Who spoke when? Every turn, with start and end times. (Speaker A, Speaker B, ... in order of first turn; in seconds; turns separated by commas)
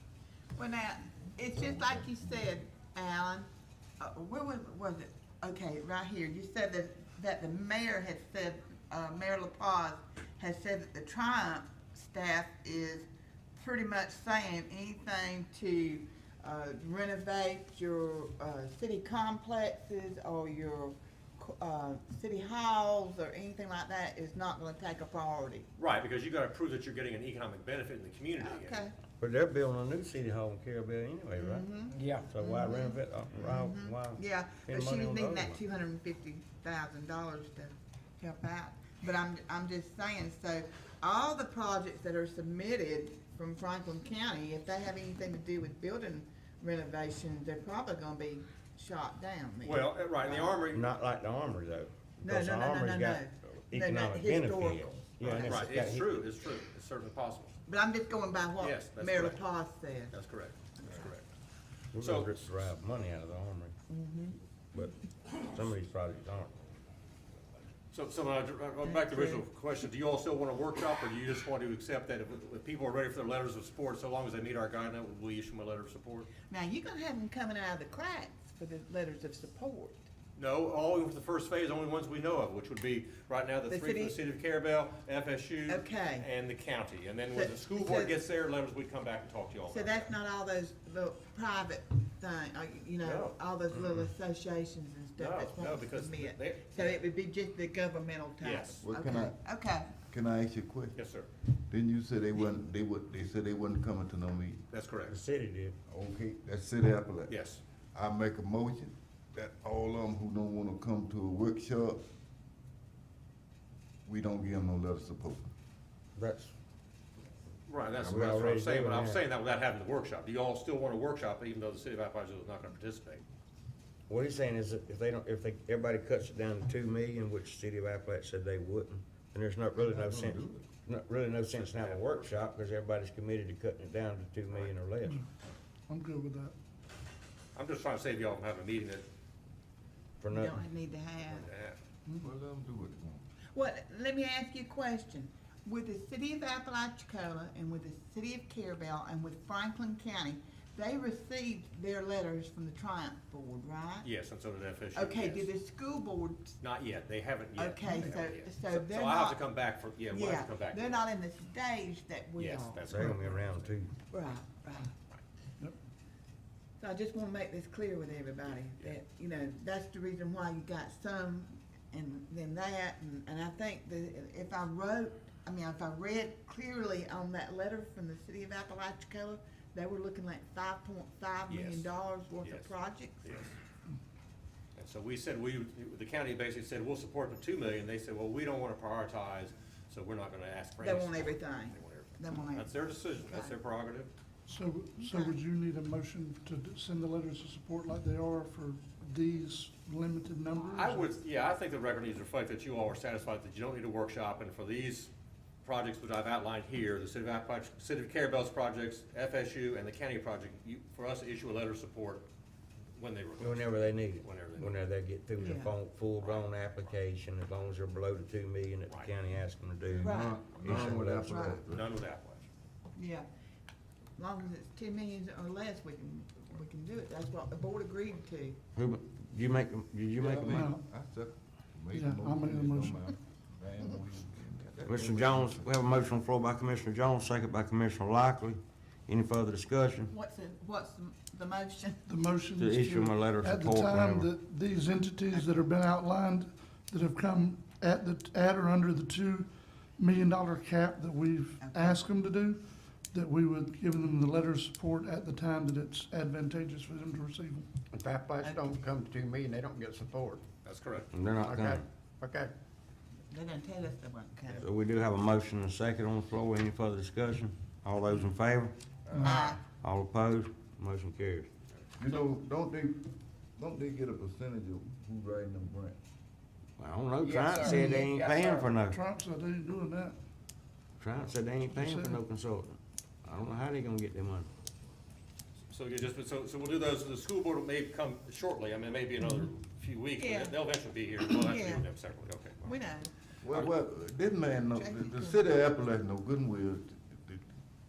Speaker A: 0.6-3.5, Speaker A: 4.0-25.7, Speaker B: 25.8-28.8, Speaker A: 28.4-28.9, Speaker C: 29.2-31.7, Speaker A: 31.4-50.6, Speaker D: 31.9-32.3, Speaker C: 32.2-35.6, Speaker B: 49.6-50.9, Speaker C: 50.7-56.3, Speaker A: 52.2-55.6, Speaker B: 55.2-57.5, Speaker A: 57.7-60.1, Speaker B: 58.6-59.4, Speaker B: 60.1-61.2, Speaker B: 61.9-62.5, Speaker C: 61.9-63.7, Speaker A: 63.9-64.4, Speaker C: 65.5-66.5, Speaker B: 67.9-76.3, Speaker A: 68.8-69.4, Speaker A: 76.5-80.1, Speaker B: 80.4-90.1, Speaker A: 83.7-84.2, Speaker A: 85.7-86.3, Speaker A: 87.3-88.2, Speaker A: 89.7-100.0, Speaker B: 93.0-93.3, Speaker B: 95.2-97.0, Speaker B: 98.4-98.8, Speaker E: 98.8-99.4, Speaker E: 100.0-101.0, Speaker B: 101.0-101.3, Speaker E: 101.7-104.6, Speaker B: 104.7-105.2, Speaker C: 105.1-105.8, Speaker E: 105.9-107.3, Speaker B: 107.3-107.6, Speaker E: 107.9-112.0, Speaker E: 114.1-115.5, Speaker C: 116.2-116.5, Speaker B: 117.7-123.2, Speaker E: 118.0-118.4, Speaker C: 118.1-119.2, Speaker C: 124.1-135.2, Speaker E: 129.8-130.8, Speaker B: 131.5-132.4, Speaker F: 135.9-136.5, Speaker B: 137.6-139.1, Speaker C: 140.2-140.6, Speaker A: 140.3-141.5, Speaker B: 141.3-141.8, Speaker E: 142.2-143.2, Speaker A: 143.5-154.1, Speaker B: 154.0-155.5, Speaker A: 154.9-156.6, Speaker B: 156.6-161.0, Speaker A: 157.6-159.4, Speaker A: 160.1-162.9, Speaker B: 162.4-163.7, Speaker F: 162.9-163.3, Speaker C: 162.9-163.9, Speaker A: 164.1-165.0, Speaker A: 166.8-183.4, Speaker B: 181.5-181.9, Speaker B: 182.4-182.7, Speaker B: 183.2-183.5, Speaker B: 184.8-194.1, Speaker A: 190.8-193.6, Speaker F: 194.5-201.2, Speaker A: 195.0-195.4, Speaker B: 200.5-205.1, Speaker B: 205.6-212.3, Speaker B: 213.0-214.8, Speaker C: 213.4-221.4, Speaker A: 215.4-215.7, Speaker B: 216.2-216.9, Speaker E: 219.9-221.9, Speaker A: 220.0-221.6, Speaker B: 220.4-220.9, Speaker B: 221.7-222.5, Speaker A: 223.0-223.3, Speaker A: 224.2-228.6, Speaker C: 228.8-230.7, Speaker E: 230.2-235.7, Speaker F: 230.4-230.8, Speaker F: 231.9-233.2, Speaker C: 234.9-240.1, Speaker A: 240.1-242.1, Speaker F: 242.1-257.7, Speaker C: 242.6-244.3, Speaker A: 251.6-252.0, Speaker D: 257.9-260.5, Speaker B: 260.6-261.1, Speaker C: 261.1-261.9, Speaker D: 261.4-262.5, Speaker A: 263.3-264.7, Speaker C: 264.6-268.7, Speaker E: 269.1-269.4, Speaker F: 269.1-269.4, Speaker A: 269.2-269.6, Speaker C: 269.7-271.5, Speaker E: 272.0-276.0, Speaker C: 276.8-279.0, Speaker D: 277.2-278.8, Speaker F: 277.5-278.2, Speaker F: 278.8-280.2, Speaker C: 281.0-284.5, Speaker F: 281.7-282.2, Speaker B: 285.7-292.7, Speaker A: 290.2-290.6, Speaker A: 291.3-291.9, Speaker A: 292.6-293.1, Speaker E: 293.4-297.4, Speaker A: 294.7-295.6